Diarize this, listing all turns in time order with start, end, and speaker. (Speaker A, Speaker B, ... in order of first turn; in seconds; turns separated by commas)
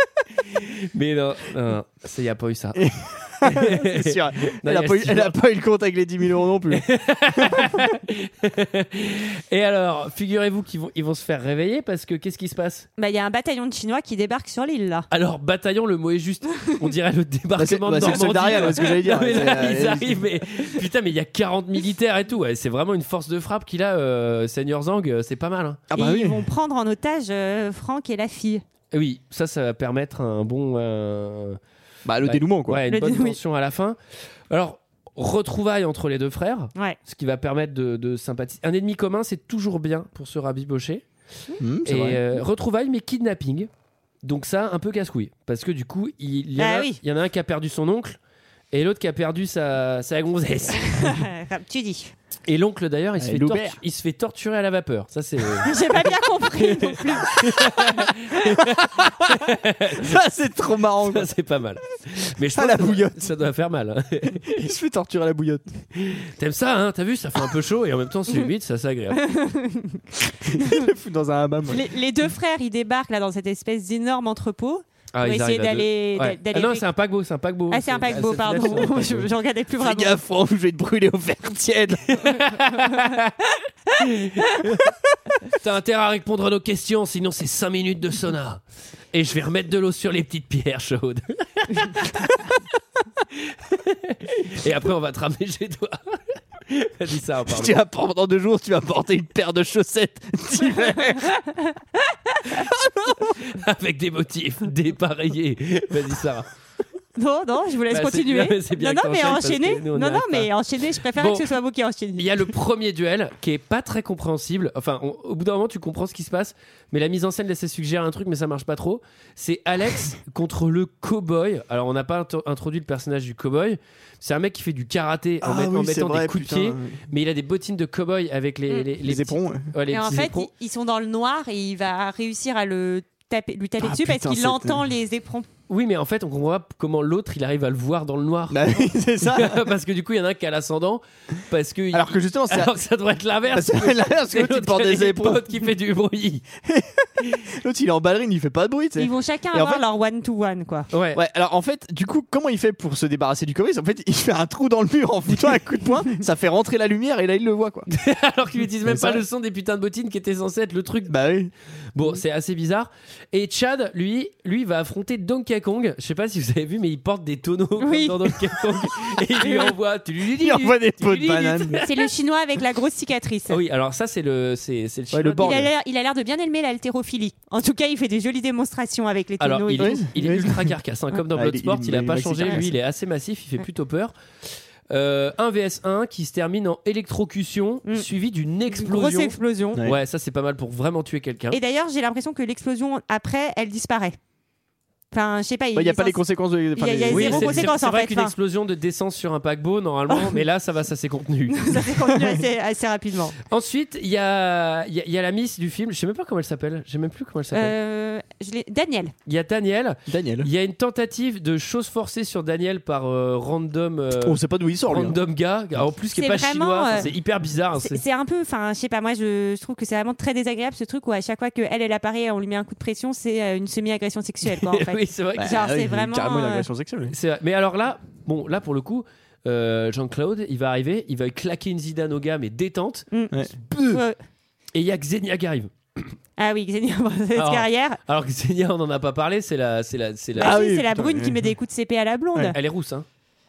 Speaker A: 0.5-2.8, Speaker B: 2.8-7.6, Speaker A: 3.4-5.4, Speaker A: 6.7-12.9, Speaker C: 13.0-15.1, Speaker A: 15.1-25.8, Speaker B: 17.6-20.3, Speaker B: 25.9-26.5, Speaker C: 25.9-28.6, Speaker A: 28.9-31.6, Speaker B: 32.0-32.8, Speaker A: 32.2-34.0, Speaker C: 32.9-33.4, Speaker A: 34.5-41.0, Speaker B: 41.6-42.2, Speaker A: 41.9-43.7, Speaker A: 44.2-48.2, Speaker C: 46.6-47.0, Speaker A: 48.7-51.2, Speaker C: 50.9-52.1, Speaker A: 52.5-55.8, Speaker B: 53.2-53.8, Speaker C: 55.6-57.4, Speaker A: 56.5-60.1, Speaker B: 59.0-59.3, Speaker B: 60.0-61.3, Speaker A: 61.0-64.6, Speaker B: 62.5-63.3, Speaker B: 64.5-65.6, Speaker A: 66.0-69.2, Speaker C: 69.2-70.0, Speaker B: 70.4-71.9, Speaker C: 70.6-70.9, Speaker C: 71.7-76.9, Speaker A: 75.1-79.3, Speaker C: 77.7-80.2, Speaker B: 79.8-82.4, Speaker A: 82.2-83.3, Speaker A: 84.0-84.9, Speaker A: 85.5-88.6, Speaker A: 89.1-92.3, Speaker A: 93.3-97.8, Speaker B: 97.5-101.4, Speaker C: 101.2-102.5, Speaker B: 102.5-103.4, Speaker A: 103.3-106.5, Speaker C: 107.2-112.5, Speaker A: 107.9-110.5, Speaker A: 111.1-111.5, Speaker A: 112.2-130.5, Speaker B: 125.4-127.0, Speaker B: 129.0-129.7, Speaker C: 129.9-135.5, Speaker B: 133.8-134.8, Speaker A: 135.7-146.4, Speaker B: 138.5-139.6, Speaker B: 141.9-142.7, Speaker B: 143.5-145.4, Speaker B: 146.6-149.8, Speaker C: 149.0-150.9, Speaker A: 150.9-151.2, Speaker B: 151.1-157.9, Speaker A: 157.9-161.2, Speaker B: 158.8-159.2, Speaker B: 161.1-161.5, Speaker A: 161.9-171.9, Speaker C: 167.8-168.4, Speaker C: 169.4-169.8, Speaker B: 170.2-171.8, Speaker C: 171.7-173.6, Speaker A: 173.5-175.7, Speaker B: 175.1-175.7, Speaker C: 175.4-180.0, Speaker A: 179.4-184.1, Speaker B: 179.8-180.7, Speaker B: 181.3-182.7, Speaker A: 184.9-191.6, Speaker C: 188.7-189.8, Speaker C: 191.5-194.2, Speaker C: 195.1-196.2, Speaker B: 195.7-197.8, Speaker C: 196.7-198.3, Speaker A: 197.1-201.9, Speaker C: 200.1-200.4, Speaker C: 201.5-203.4, Speaker A: 203.5-207.7, Speaker C: 207.5-209.1, Speaker A: 209.3-218.0, Speaker B: 210.1-210.5, Speaker B: 214.2-215.2, Speaker C: 216.1-217.1, Speaker C: 217.8-226.7, Speaker A: 224.5-225.7, Speaker B: 225.4-227.1, Speaker A: 227.1-234.0, Speaker C: 233.1-233.4, Speaker C: 233.9-234.2, Speaker A: 234.7-236.0, Speaker C: 236.4-238.0, Speaker A: 237.3-240.6, Speaker B: 240.4-241.4, Speaker C: 240.4-242.6, Speaker A: 242.5-243.1